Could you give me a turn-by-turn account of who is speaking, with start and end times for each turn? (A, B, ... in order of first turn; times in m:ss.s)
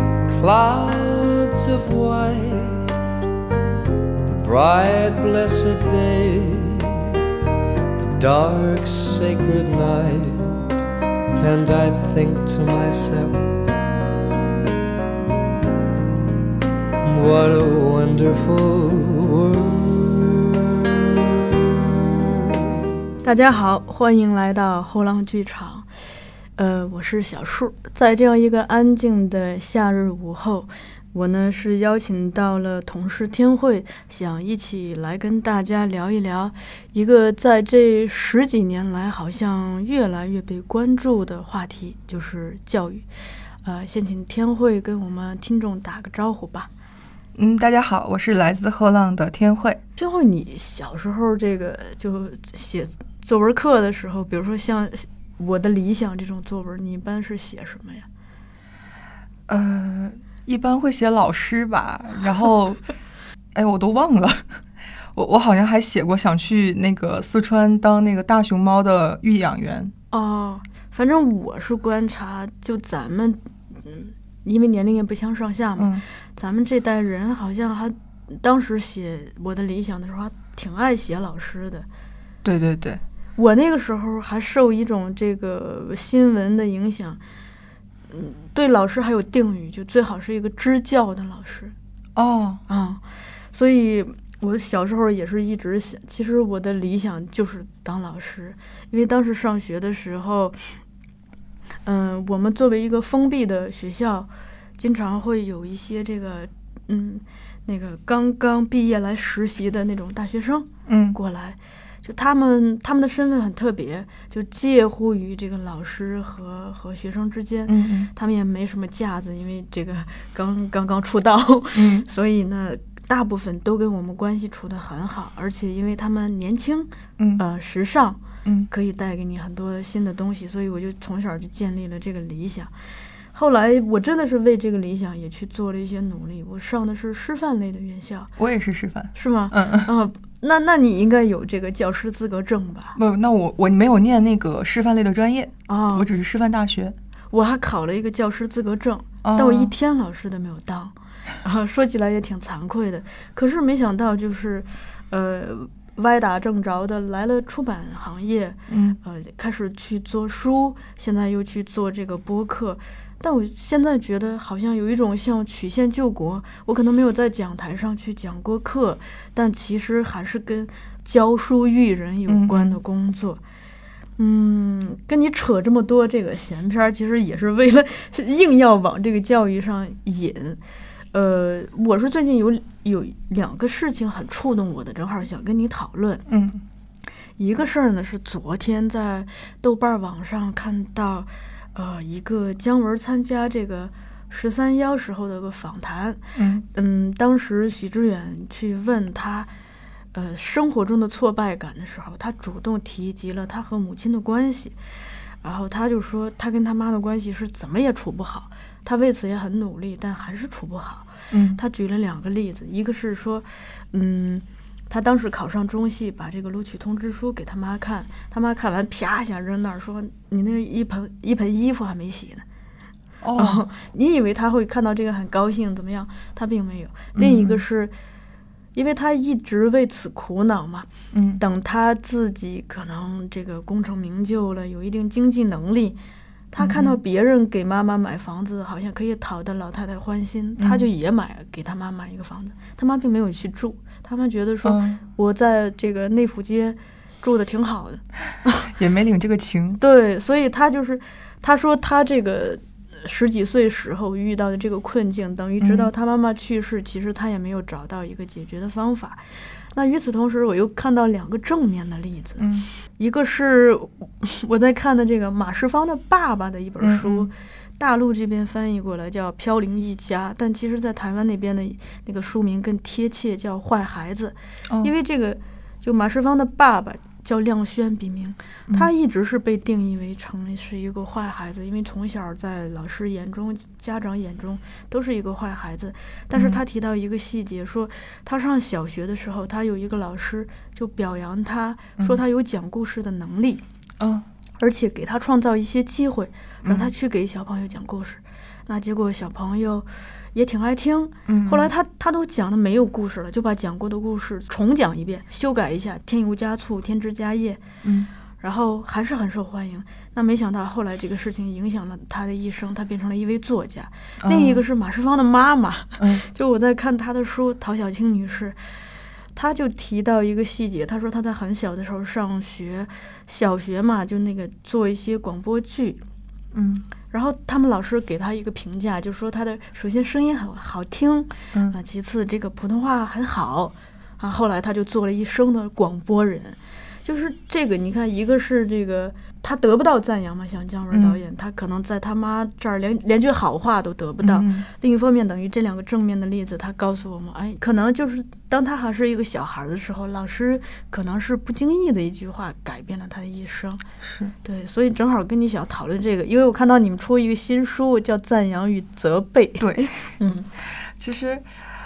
0:00.3-0:02.9 A
0:04.3-0:07.1 A
0:08.0-0:10.6 A
0:11.4-0:13.5 A
0:17.0-0:20.9 A
0:23.2-0:25.9 B
0:26.6-0:43.0 B
0:43.6-0:46.7 B
0:47.4-0:49.8 C
0:50.0-0:58.1 B
0:59.5-1:02.8 C
1:03.5-1:04.6 C
1:05.1-1:09.9 C
1:10.1-1:21.8 B
1:15.8-1:16.0 C
1:22.4-1:23.0 C
1:23.4-1:27.2 B
1:28.1-1:31.7 B
1:32.2-1:32.6 C
1:32.7-1:33.0 B
1:33.5-1:40.7 B
1:41.8-2:12.7 B
1:50.8-1:51.2 C
1:57.7-1:58.1 C
2:01.7-2:02.1 C
2:07.2-2:07.4 C
2:08.4-2:08.7 C
2:13.3-2:18.3 B
2:18.4-2:19.9 C
2:19.1-2:23.0 B
2:22.9-2:27.0 C
2:25.7-2:26.1 B
2:27.3-2:53.4 B
2:29.2-2:29.7 C
2:38.7-2:39.0 C
2:52.3-2:52.8 C
2:54.2-3:00.6 B
3:01.1-3:06.2 B
3:06.3-3:06.6 C
3:07.4-3:16.2 B
3:16.3-3:16.6 C
3:16.7-3:19.5 B
3:20.1-3:24.8 B
3:25.4-3:42.4 B
3:31.3-3:31.6 C
3:43.2-3:43.6 C
3:43.4-3:47.9 B
3:47.2-3:47.6 C
3:48.7-3:56.0 B
3:51.1-3:51.4 C
3:56.5-4:08.7 B
3:56.6-3:57.0 C
4:00.6-4:00.9 C
4:04.6-4:05.0 C
4:08.7-4:09.8 C
4:09.8-4:22.4 B
4:15.6-4:15.9 C
4:22.4-4:22.7 C
4:23.0-4:53.6 B
4:26.8-4:27.3 C
4:46.3-4:46.6 C
4:54.0-4:54.2 C
4:54.6-5:07.6 B
4:56.6-4:56.9 C
5:01.3-5:01.7 C
5:07.8-5:08.1 C
5:08.4-5:18.6 B
5:14.2-5:14.6 C
5:19.3-5:26.0 B
5:26.5-5:26.9 C
5:27.1-5:53.8 B
5:40.9-5:41.2 C
5:44.2-5:44.7 C
5:54.0-5:54.3 C
5:54.4-6:00.5 B
5:59.6-6:00.1 C
6:00.8-6:01.4 C